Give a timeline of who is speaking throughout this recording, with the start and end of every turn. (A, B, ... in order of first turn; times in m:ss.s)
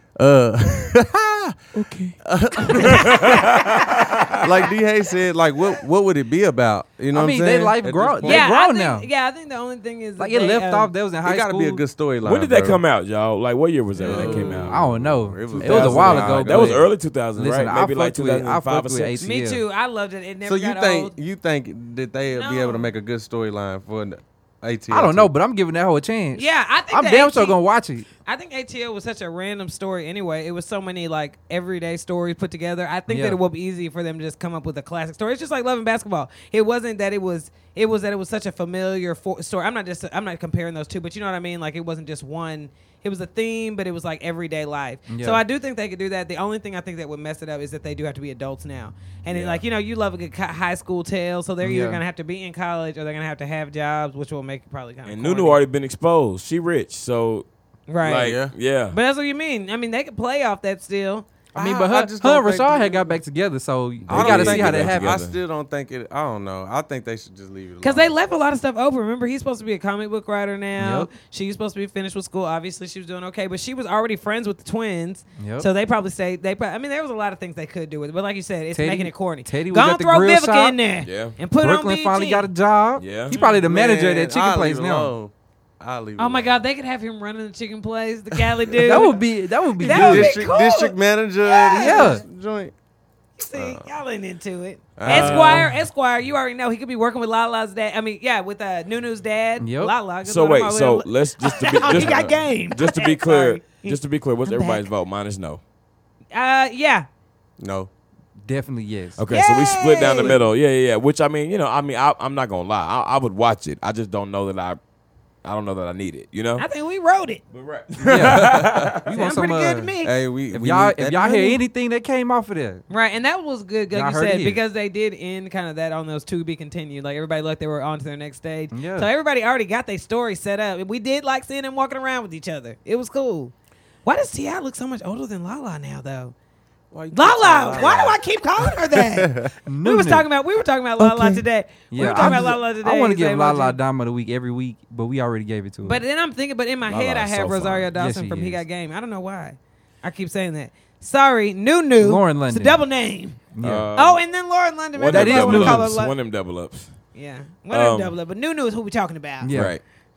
0:00.2-0:01.6 A
0:01.7-0:04.4 B
0:02.2-0:03.5 A
0:04.4-0:08.5 A
0:07.1-0:09.1 C
0:08.2-0:10.9 D
0:10.2-0:11.8 C
0:11.2-0:12.8 A
0:12.2-0:14.8 B
0:14.0-0:16.8 A
0:14.1-0:19.6 C
0:15.6-0:19.3 B
0:19.2-0:21.1 D
0:20.4-0:25.3 A
0:22.3-0:22.9 D
0:24.9-0:28.1 C
0:26.3-0:27.6 D
0:28.2-0:55.6 D
0:33.1-0:33.4 C
0:45.1-0:45.4 C
0:49.3-0:49.6 B
0:51.6-0:52.0 C
0:55.0-0:57.5 B
0:57.9-0:58.4 D
0:58.0-0:59.0 B
0:58.0-0:58.5 A
0:58.9-1:01.3 D
1:01.5-1:03.2 A
1:01.5-1:05.2 C
1:04.0-1:05.4 B
1:04.1-1:08.1 A
1:07.8-1:22.5 D
1:10.8-1:11.1 C
1:15.4-1:15.7 C
1:18.7-1:20.8 C
1:21.0-1:21.4 B
1:21.6-1:25.1 C
1:23.0-1:23.4 B
1:23.3-1:23.6 D
1:23.6-1:26.6 A
1:26.2-1:29.2 D
1:28.3-1:29.1 A
1:28.8-1:30.4 C
1:29.8-1:32.2 D
1:29.8-1:32.7 A
1:31.7-1:32.2 C
1:33.4-1:44.8 D
1:33.5-1:33.9 A
1:35.0-1:35.7 A
1:35.0-1:35.7 B
1:35.4-1:35.7 C
1:39.6-1:39.9 C
1:40.2-1:45.6 B
1:41.9-1:42.3 A
1:46.3-1:47.0 D
1:47.6-1:47.9 A
1:48.4-1:49.2 C
1:49.2-1:54.8 B
1:49.3-1:50.4 D
1:55.4-1:56.6 B
1:56.6-1:57.4 D
1:57.5-1:59.1 B
1:58.0-1:59.9 C
1:58.2-1:58.9 A
1:59.1-2:00.1 D
2:00.0-2:01.6 A
2:00.5-2:02.8 C
2:02.9-2:13.5 D
2:03.9-2:04.6 C
2:08.7-2:09.1 C
2:14.0-2:16.3 D
2:16.9-2:19.5 A
2:17.1-2:23.8 D
2:19.6-2:20.3 C
2:21.9-2:26.0 C
2:22.1-2:22.4 A
2:25.8-2:33.4 D
2:26.8-2:27.9 B
2:28.0-2:28.6 C
2:32.0-2:32.8 C
2:33.5-2:33.9 C
2:33.6-2:34.2 B
2:33.9-2:36.1 D
2:34.9-2:36.9 B
2:35.1-2:35.9 C
2:37.1-2:39.5 D
2:37.7-2:38.2 B
2:39.4-2:39.7 C
2:39.5-2:39.8 B